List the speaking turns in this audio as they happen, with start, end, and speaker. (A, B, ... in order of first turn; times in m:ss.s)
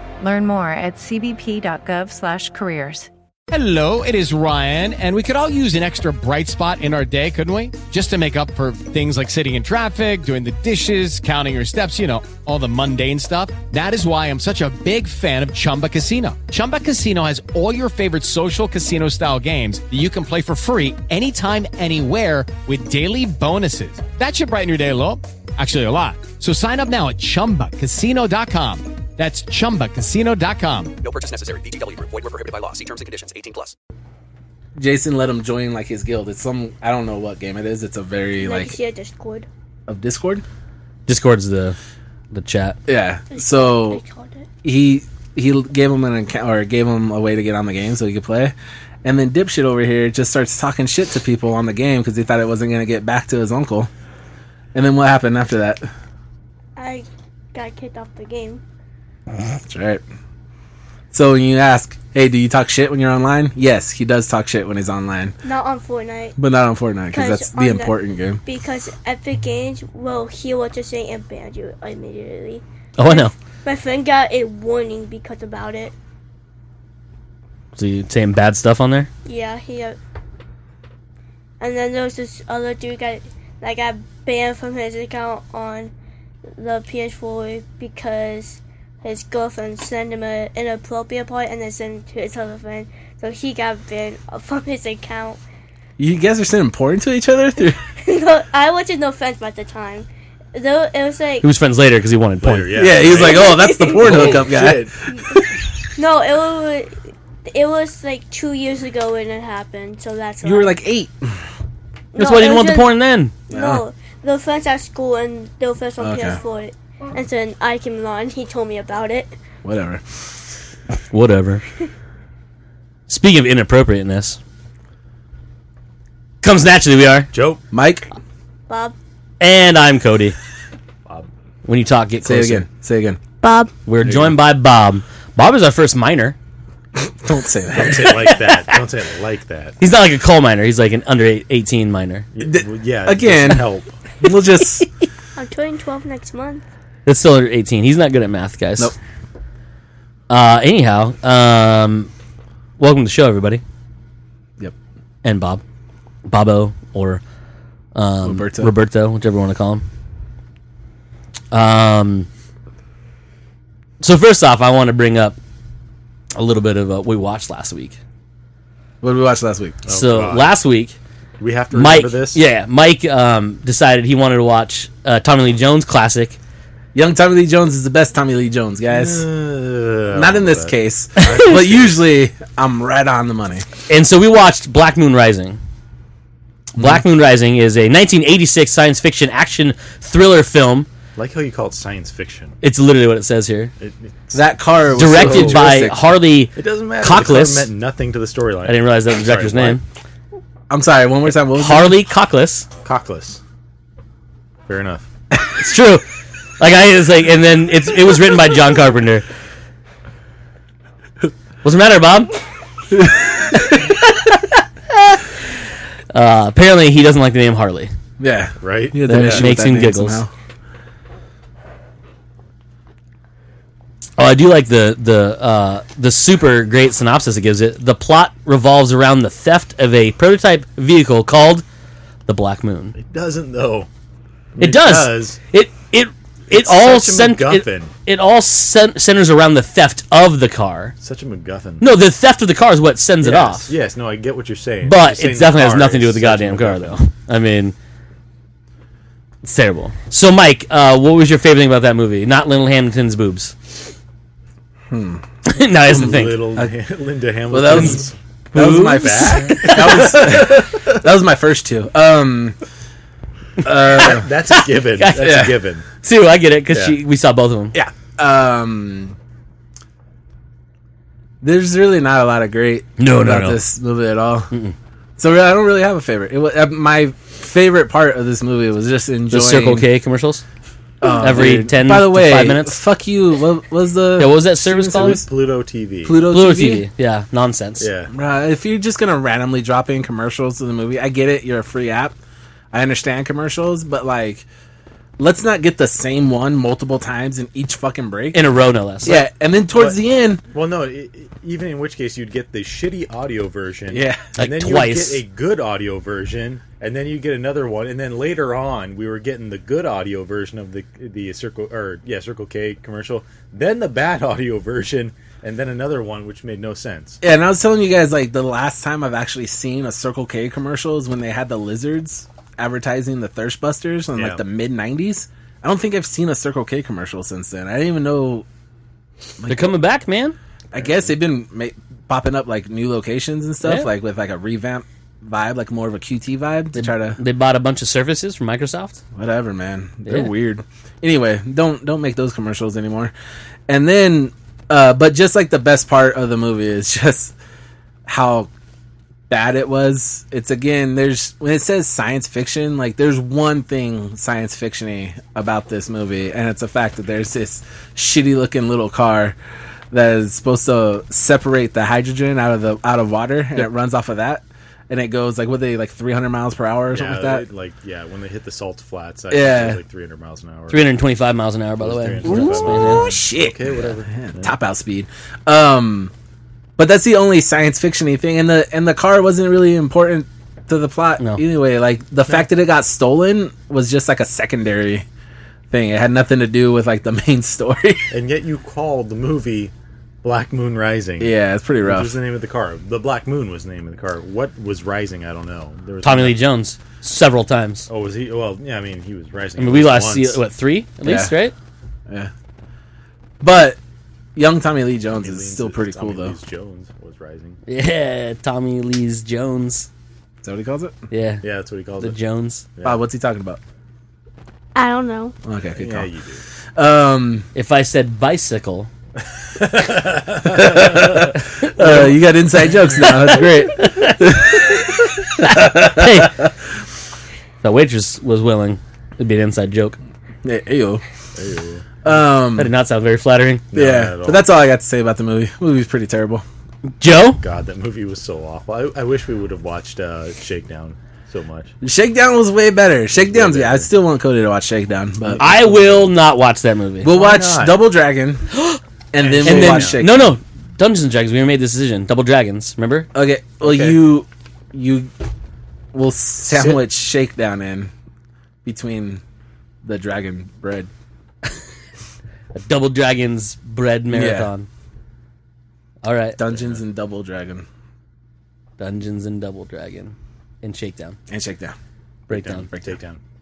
0:00.2-0:03.1 A
0:03.5-0:30.9 B
0:31.0-0:33.8 C
0:34.8-0:38.8 D
0:38.4-0:39.5 E
0:39.9-0:40.4 D
0:41.1-0:41.8 F
0:42.3-0:42.8 F
0:42.9-0:44.0 D
0:43.3-0:44.5 E
0:44.6-0:53.9 D
0:54.7-0:55.9 D
0:56.8-0:58.6 E
0:59.4-1:00.0 D
1:01.1-1:05.4 D
1:05.4-1:06.4 E
1:06.4-1:08.4 D
1:07.1-1:15.9 E
1:13.0-1:13.3 F
1:17.8-1:19.1 F
1:19.2-1:20.0 E
1:21.6-1:25.9 E
1:26.6-1:35.4 E
1:36.0-1:37.8 D
1:38.0-1:41.5 E
1:41.4-1:42.9 F
1:42.4-1:44.7 G
1:42.7-1:45.5 D
1:43.0-1:44.5 E
1:45.1-1:45.4 E
1:46.0-1:50.8 E
1:50.4-1:51.4 D
1:52.1-1:52.9 E
1:52.2-1:53.4 F
1:53.5-1:53.8 D
1:53.5-1:59.3 E
1:56.0-1:56.4 D
1:59.6-2:00.2 D
2:01.1-2:01.6 F
2:03.1-2:04.4 F
2:06.4-2:07.3 F
2:07.3-2:07.6 G
2:07.7-2:08.1 D
2:08.7-2:09.0 E
2:09.4-2:10.4 F
2:11.6-2:12.7 F
2:12.2-2:13.2 D
2:13.4-2:13.7 E
2:13.9-2:16.4 F
2:14.0-2:14.4 G
2:17.0-2:18.2 D
2:17.7-2:19.8 G
2:18.1-2:18.8 F
2:19.8-2:22.3 F
2:22.3-2:24.0 G
2:22.4-2:23.7 D
2:24.2-2:24.9 D
2:25.4-2:26.6 E
2:27.1-2:28.9 F
2:30.3-2:32.1 F
2:32.8-2:33.6 F
2:35.2-2:35.6 F
2:36.3-2:37.2 F
2:38.0-2:39.8 F
2:38.2-2:38.7 D
2:41.5-2:42.3 F
2:44.0-2:45.4 F
2:46.4-2:48.0 F
2:49.0-2:49.8 D
2:49.9-2:50.6 G
2:49.9-2:51.0 F
2:51.4-2:52.4 G
2:51.7-2:56.4 F
2:56.9-2:59.3 D
2:58.9-3:02.0 G
3:00.1-3:03.7 D
3:03.9-3:05.6 F
3:06.7-3:10.9 F
3:11.2-3:12.6 G
3:12.6-3:13.7 F
3:13.8-3:15.8 G
3:14.3-3:16.0 D
3:15.0-3:17.7 F
3:16.6-3:19.8 G
3:18.6-3:19.8 F
3:20.7-3:22.0 D
3:21.5-3:22.7 F
3:22.8-3:23.4 G
3:24.7-3:25.1 G
3:25.6-3:26.1 F
3:26.6-3:29.3 F
3:31.6-3:32.4 F
3:32.9-3:33.7 D
3:33.6-3:35.2 F
3:36.1-3:37.9 F
3:38.2-3:40.3 D
3:38.6-3:39.5 G
3:39.0-3:40.2 F
3:44.2-3:51.6 F
3:52.3-3:52.9 F
3:52.9-3:53.9 G
3:54.6-3:55.4 G
3:54.6-4:00.9 F
3:56.5-3:57.9 G
4:01.0-4:01.9 G
4:01.8-4:03.7 F
4:03.2-4:07.0 G
4:04.8-4:07.8 F
4:09.4-4:13.8 F
4:14.9-4:15.2 D
4:15.5-4:16.4 F
4:15.9-4:20.7 G
4:15.9-4:16.7 D
4:17.5-4:22.6 D
4:17.7-4:18.0 F
4:18.5-4:20.2 F
4:23.6-4:24.2 D
4:23.8-4:26.0 G
4:25.0-4:27.8 F
4:25.2-4:25.6 D
4:26.7-4:27.0 G
4:27.7-4:29.2 D
4:31.4-4:34.5 D
4:33.0-4:33.6 F
4:35.2-4:39.9 D
4:39.3-4:40.4 F
4:41.0-4:45.2 D
4:41.0-4:42.8 F
4:44.2-4:45.2 F
4:44.8-4:46.2 G
4:46.0-4:46.9 D
4:46.2-4:47.9 F
4:47.8-4:48.1 G
4:48.1-4:52.2 D
4:52.7-4:54.5 D
4:55.2-4:58.4 D
4:58.3-4:59.2 F
4:59.0-5:00.4 D
5:00.5-5:17.2 G
5:03.9-5:04.4 D
5:04.4-5:05.2 F
5:17.2-5:28.5 D
5:24.2-5:24.4 G
5:29.4-5:29.7 D
5:29.5-5:30.4 F
5:30.7-5:37.2 D
5:30.7-5:31.2 G
5:36.8-5:39.0 F
5:39.2-5:43.1 D
5:43.7-5:47.3 D
5:48.1-5:48.5 D
5:49.3-5:59.4 D
5:59.9-6:07.5 D
6:06.9-6:11.0 G
6:09.3-6:09.8 D
6:10.7-6:13.2 F
6:11.8-6:14.5 G
6:12.2-6:16.1 D
6:16.8-6:25.1 D
6:25.7-6:28.1 D
6:28.1-6:36.4 G
6:31.2-6:32.1 D
6:36.0-6:37.9 F
6:37.9-6:40.4 G
6:39.6-6:41.5 F
6:41.0-6:41.4 D
6:43.4-6:43.8 D
6:44.4-6:46.4 D
6:45.1-6:47.6 G
6:47.7-6:49.9 F
6:50.4-6:51.0 D
6:51.1-6:51.4 F
6:51.4-6:52.2 G
6:52.0-6:52.7 F
6:52.8-6:53.0 G
6:52.8-6:53.6 D
6:54.8-6:55.4 E
6:55.4-6:56.1 D
6:55.8-6:56.4 G
6:56.8-6:57.5 D
6:57.6-6:58.9 F
6:59.4-7:02.1 G
7:00.4-7:06.5 D
7:03.7-7:04.7 F
7:05.3-7:06.5 F
7:07.6-7:10.0 F
7:10.4-7:11.0 D
7:11.4-7:12.2 G
7:12.0-7:12.7 D
7:12.6-7:13.7 F
7:13.7-7:14.5 G
7:13.7-7:16.4 D
7:17.0-7:17.4 F
7:17.3-7:21.7 G
7:21.8-7:25.5 D
7:23.1-7:23.9 G
7:25.3-7:26.2 G
7:25.4-7:27.2 F
7:27.0-7:28.4 D
7:27.0-7:27.8 G
7:28.5-7:28.8 F
7:29.1-7:30.4 D
7:29.2-7:30.0 G
7:29.4-7:33.1 F
7:33.1-7:35.1 D
7:33.6-7:34.0 G
7:35.9-7:37.9 D
7:36.5-7:36.8 G
7:38.6-7:39.2 D
7:39.8-7:40.9 D
7:42.5-7:44.7 F
7:44.1-7:44.5 D
7:46.0-7:46.4 F
7:46.4-7:47.7 D
7:46.5-7:46.8 G
7:48.8-7:51.2 F
7:51.3-7:51.8 D
7:52.3-7:52.7 F
7:52.3-7:53.2 G